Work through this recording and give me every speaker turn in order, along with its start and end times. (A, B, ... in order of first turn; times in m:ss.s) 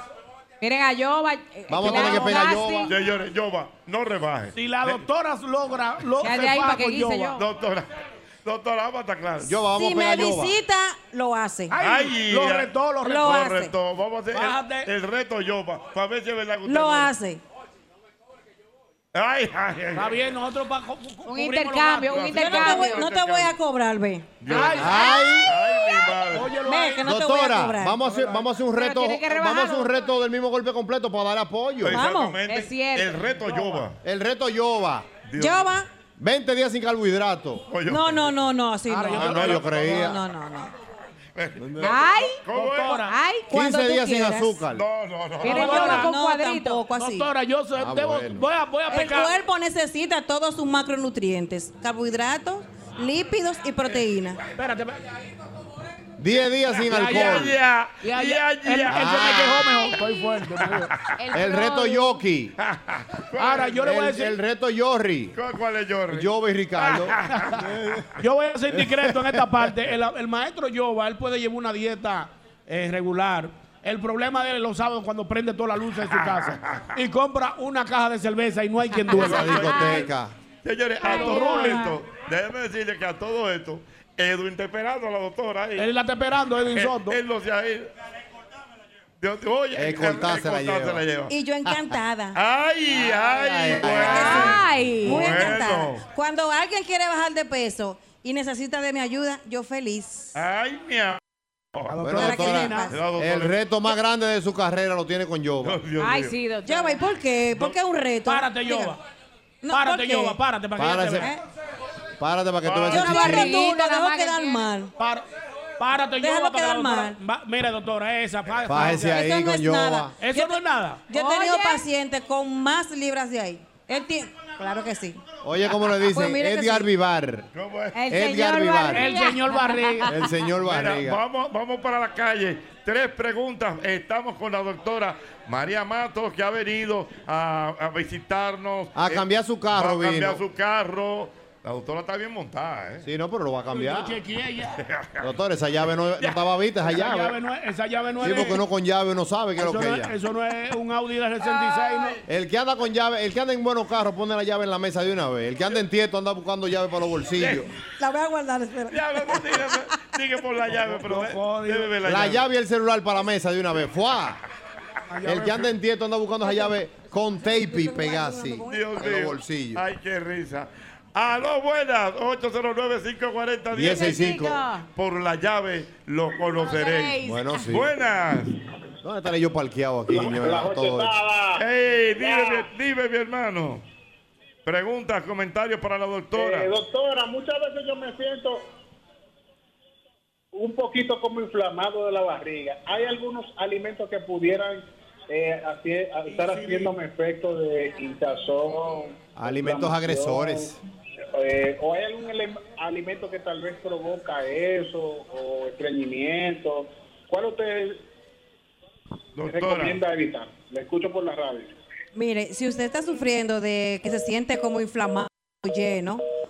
0:00.6-0:02.9 A
0:01.7-0:02.9 B
0:01.9-0:02.2 C
0:02.9-0:05.0 C
0:04.6-0:07.4 D
0:06.2-0:07.4 A
0:07.3-0:07.9 C
0:08.4-0:09.6 C
0:09.4-0:10.5 B
0:09.7-0:11.8 E
0:11.7-0:13.5 D
0:11.8-0:17.1 C
0:13.0-0:13.7 E
0:14.3-0:14.9 D
0:16.7-0:17.4 E
0:19.1-0:20.2 C
0:20.0-0:22.8 D
0:21.3-0:23.1 A
0:22.1-0:23.6 C
0:22.4-0:25.1 E
0:24.4-0:26.5 C
0:24.5-0:25.0 D
0:24.8-0:25.5 B
0:26.3-0:27.1 D
0:26.6-0:28.1 E
0:27.0-0:32.0 B
0:28.0-0:28.5 D
0:28.7-0:29.9 A
0:31.8-0:34.0 C
0:31.9-0:32.4 E
0:32.4-0:33.4 A
0:33.5-0:33.8 D
0:34.0-0:35.2 B
0:35.2-0:35.8 C
0:35.4-0:35.9 E
0:36.2-0:37.7 B
0:37.7-0:38.3 C
0:37.9-0:40.7 E
0:38.9-0:39.9 D
0:39.1-0:40.2 B
0:39.2-0:40.0 C
0:41.4-0:43.1 C
0:41.6-0:42.0 B
0:41.8-0:42.4 A
0:42.5-0:43.2 D
0:43.1-0:43.5 A
0:43.5-0:44.6 E
0:43.5-0:44.8 B
0:44.7-0:46.1 C
0:45.4-0:46.8 A
0:45.4-0:47.3 E
0:45.5-0:46.1 D
0:46.9-0:49.4 D
0:47.8-0:48.4 B
0:48.9-0:54.4 E
0:54.6-0:55.0 D
0:56.2-0:57.6 B
0:56.9-0:57.5 D
0:56.9-0:59.6 C
0:58.0-1:00.9 D
0:58.9-0:59.6 B
1:01.2-1:02.2 A
1:01.3-1:02.5 B
1:02.6-1:04.0 C
1:03.4-1:04.4 D
1:03.8-1:05.4 B
1:05.3-1:07.7 C
1:06.1-1:07.2 B
1:08.2-1:19.6 D
1:16.1-1:16.9 C
1:19.1-1:20.3 B
1:19.1-1:20.1 C
1:20.6-1:25.9 C
1:21.0-1:21.9 A
1:21.1-1:21.8 D
1:21.1-1:21.8 E
1:25.8-1:27.2 D
1:26.7-1:27.9 C
1:29.2-1:31.3 C
1:29.8-1:31.0 B
1:31.3-1:32.4 E
1:32.4-1:36.0 C
1:32.9-1:34.6 B
1:33.9-1:35.4 A
1:34.1-1:34.5 E
1:35.0-1:40.4 E
1:40.4-1:41.2 C
1:41.8-1:43.6 C
1:41.9-1:42.9 D
1:42.0-1:45.8 B
1:42.1-1:43.0 E
1:45.6-1:46.4 C
1:46.0-1:47.0 A
1:46.6-1:49.0 E
1:48.3-1:49.0 D
1:49.6-1:50.4 E
1:49.7-1:51.3 D
1:50.8-1:51.3 B
1:52.2-1:53.6 B
1:52.6-1:53.4 C
1:52.9-1:54.7 A
1:52.9-1:54.9 E
1:55.0-1:55.2 D
1:55.8-1:59.3 D
1:56.2-1:57.2 E
1:58.7-2:00.2 B
1:58.9-2:05.2 E
2:00.1-2:01.1 D
2:01.1-2:01.9 A
2:05.4-2:07.5 B
2:06.1-2:06.9 E
2:07.5-2:08.0 C
2:08.0-2:10.1 A
2:08.1-2:09.1 B
2:08.9-2:10.1 D
2:10.1-2:11.2 B
2:10.6-2:23.1 C
2:19.0-2:20.4 B
2:23.0-2:24.2 B
2:23.7-2:24.8 D
2:24.8-2:25.2 C
2:25.2-2:27.4 B
2:26.8-2:28.6 D
2:28.2-2:30.1 B
2:29.6-2:32.2 D
2:32.3-2:37.7 B
2:37.4-2:37.7 C
2:38.0-2:39.4 E
2:38.9-2:42.4 C
2:40.8-2:42.0 D
2:42.0-2:44.4 B
2:45.1-2:45.7 D
2:45.2-2:49.8 B
2:48.6-2:54.4 C
2:53.7-2:54.6 B
2:53.8-2:54.8 A
2:55.0-2:58.6 C
2:56.6-2:57.4 A
2:57.2-2:57.9 B
2:59.0-3:01.2 B
3:00.1-3:01.6 F
3:01.6-3:03.8 C
3:02.2-3:02.7 F
3:04.6-3:06.7 C
3:06.4-3:08.6 F
3:10.5-3:20.7 F
3:16.4-3:16.9 D
3:19.4-3:20.8 B
3:21.4-3:28.0 F
3:29.4-3:30.0 C
3:29.5-3:31.7 F
3:32.1-3:36.2 E